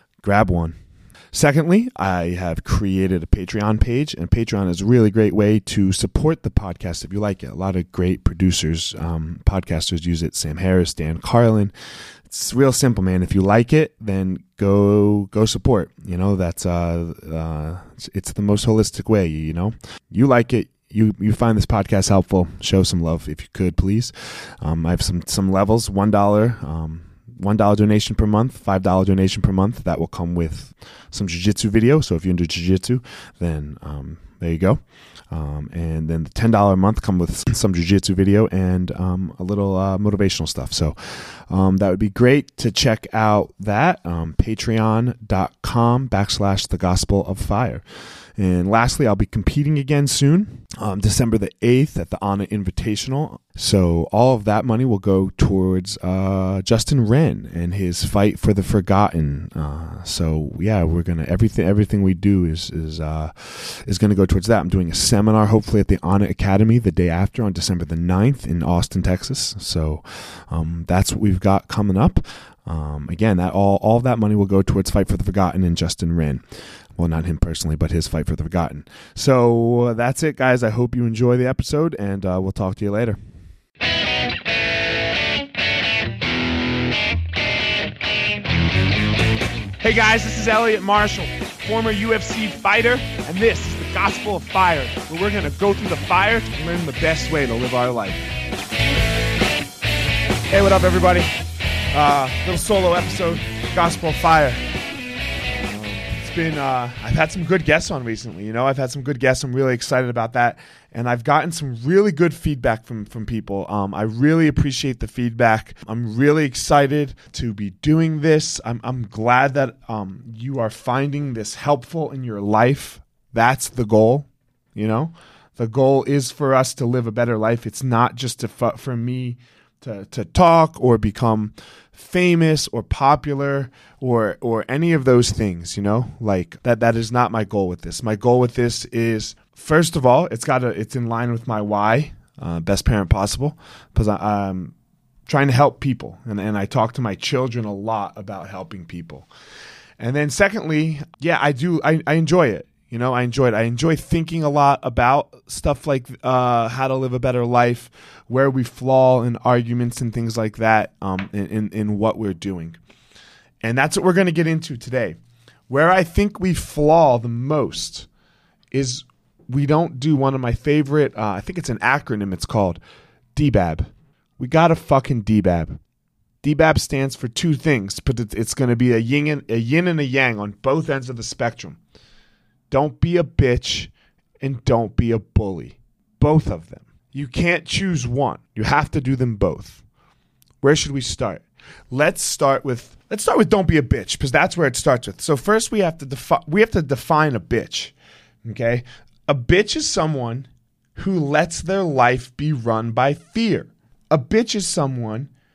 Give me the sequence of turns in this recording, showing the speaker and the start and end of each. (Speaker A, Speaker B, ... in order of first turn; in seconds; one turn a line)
Speaker A: 0.2-0.8
Speaker A: 1.3-11.7
Speaker A: 12.3-34.8
Speaker A: 35.3-47.8
Speaker A: 48.4-76.4
Speaker A: 77.0-83.2
Speaker A: 89.8-98.2
Speaker A: 100.5-101.3
Speaker A: 101.9-104.6
Speaker A: 105.5-144.7
Speaker A: 145.3-149.3
Speaker A: 150.0-162.8
Speaker A: 163.6-165.2
Speaker A: 165.7-168.1
Speaker A: 168.7-172.8
Speaker A: 173.3-175.8
Speaker A: 176.4-181.8
Speaker A: 182.7-189.8
Speaker A: 190.6-205.3